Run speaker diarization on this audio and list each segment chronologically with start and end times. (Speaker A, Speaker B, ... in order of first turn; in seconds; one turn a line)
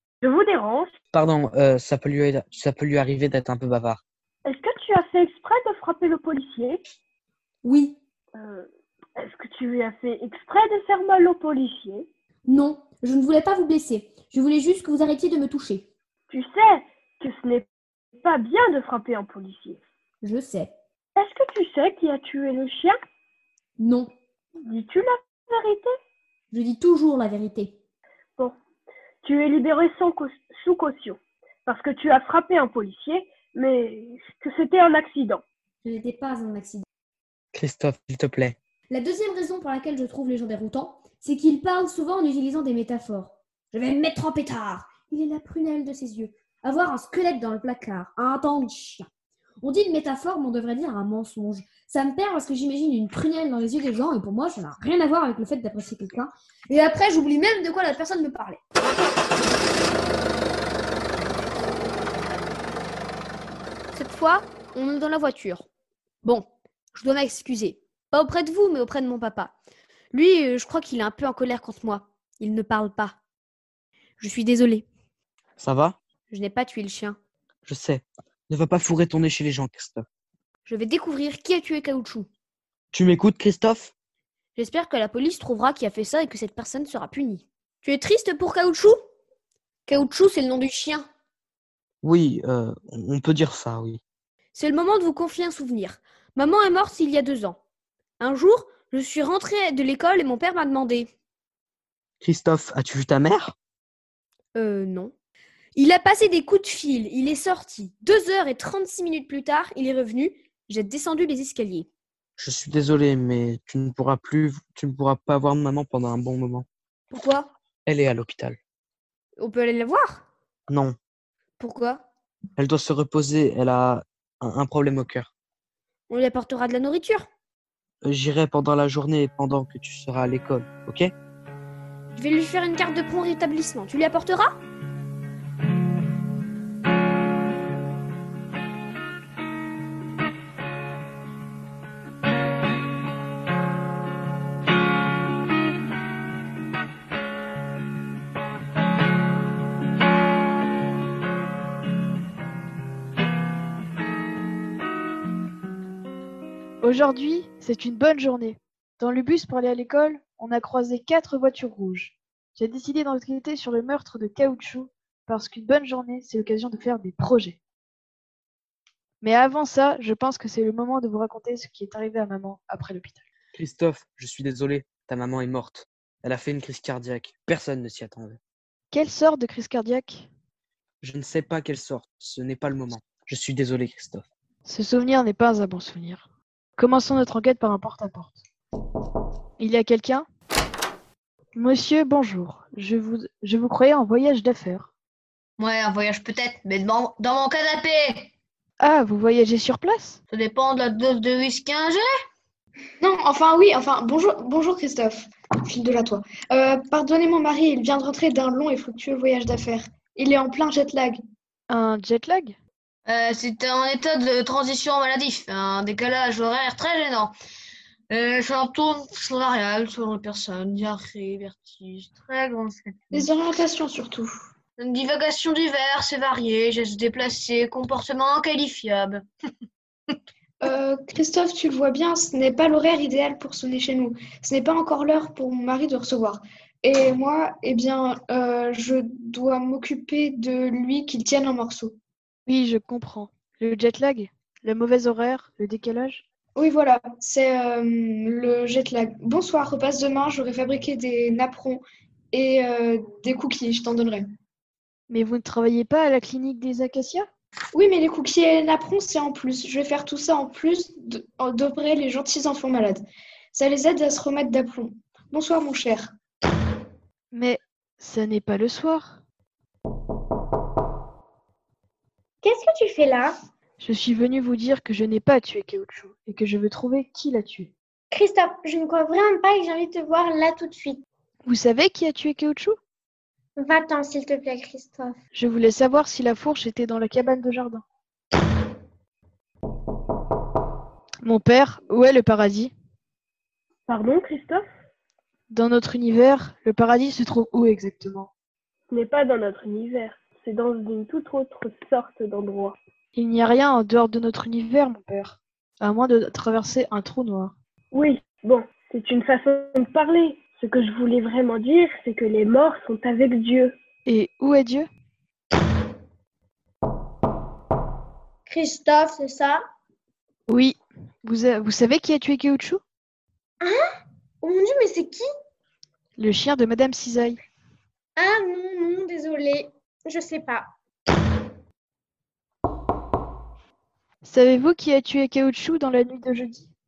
Speaker A: 0.2-0.9
Speaker B: 1.1-4.0
Speaker A: 4.5-6.8
Speaker C: 7.6-8.0
Speaker A: 8.3-12.1
Speaker C: 12.5-15.9
Speaker A: 16.3-17.7
Speaker A: 18.2-19.8
Speaker C: 20.2-20.7
Speaker A: 21.2-23.0
Speaker C: 23.8-24.1
Speaker A: 24.6-25.9
Speaker C: 26.5-27.8
Speaker A: 29.2-35.4
Speaker C: 35.8-36.8
Speaker B: 37.5-38.6
Speaker C: 38.9-49.1
Speaker C: 49.6-58.6
Speaker C: 63.9-65.7
Speaker C: 66.2-69.5
Speaker C: 70.1-73.2
Speaker C: 74.2-74.9
Speaker B: 75.6-76.0
Speaker C: 76.3-77.2
Speaker B: 77.7-80.0
Speaker C: 80.7-82.3
Speaker B: 82.9-83.9
Speaker C: 84.6-89.0
Speaker C: 89.9-91.1
Speaker B: 92.0-94.0
Speaker C: 94.5-97.6
Speaker C: 98.2-101.1
Speaker B: 102.2-103.5
Speaker C: 104.5-105.1
Speaker C: 105.8-111.9
Speaker B: 112.4-116.7
Speaker C: 117.1-117.5
Speaker B: 117.9-118.6
Speaker C: 119.4-120.2
Speaker B: 120.7-121.0
Speaker C: 121.6-122.0
Speaker B: 122.6-125.3
Speaker C: 126.1-127.3
Speaker B: 128.0-131.1
Speaker C: 132.1-134.6
Speaker D: 156.8-167.6
Speaker D: 169.2-173.2
Speaker B: 173.5-178.4
Speaker D: 178.9-180.3
Speaker B: 181.0-184.2
Speaker D: 184.6-186.2
Speaker D: 186.8-188.4
Speaker D: 189.6-190.3
Speaker D: 191.5-194.9
Speaker E: 195.6-198.3
Speaker D: 198.8-200.2
Speaker E: 200.3-202.1
Speaker F: 203.0-211.2
Speaker D: 211.7-212.6
Speaker E: 213.1-217.3
Speaker E: 218.1-223.2
Speaker F: 223.1-224.3
Speaker E: 224.8-229.2
Speaker F: 230.6-242.0
Speaker D: 242.5-246.2
Speaker F: 246.5-254.3
Speaker D: 255.1-257.3
Speaker F: 257.7-266.1
Speaker D: 267.3-269.2
Speaker G: 272.4-273.4
Speaker D: 273.8-277.7
Speaker G: 278.1-281.0
Speaker D: 281.5-282.8
Speaker G: 283.6-285.2
Speaker D: 285.3-287.8
Speaker D: 291.2-292.7
Speaker A: 293.9-294.6
Speaker D: 295.5-298.3
Speaker A: 298.9-302.8
Speaker D: 303.1-307.5
Speaker A: 307.9-313.8
Speaker D: 314.1-314.9
Speaker G: 318.5-319.6
Speaker D: 320.5-322.8
Speaker G: 323.6-325.3
Speaker D: 326.2-327.4
Speaker G: 328.2-330.7
Speaker D: 334.2-336.7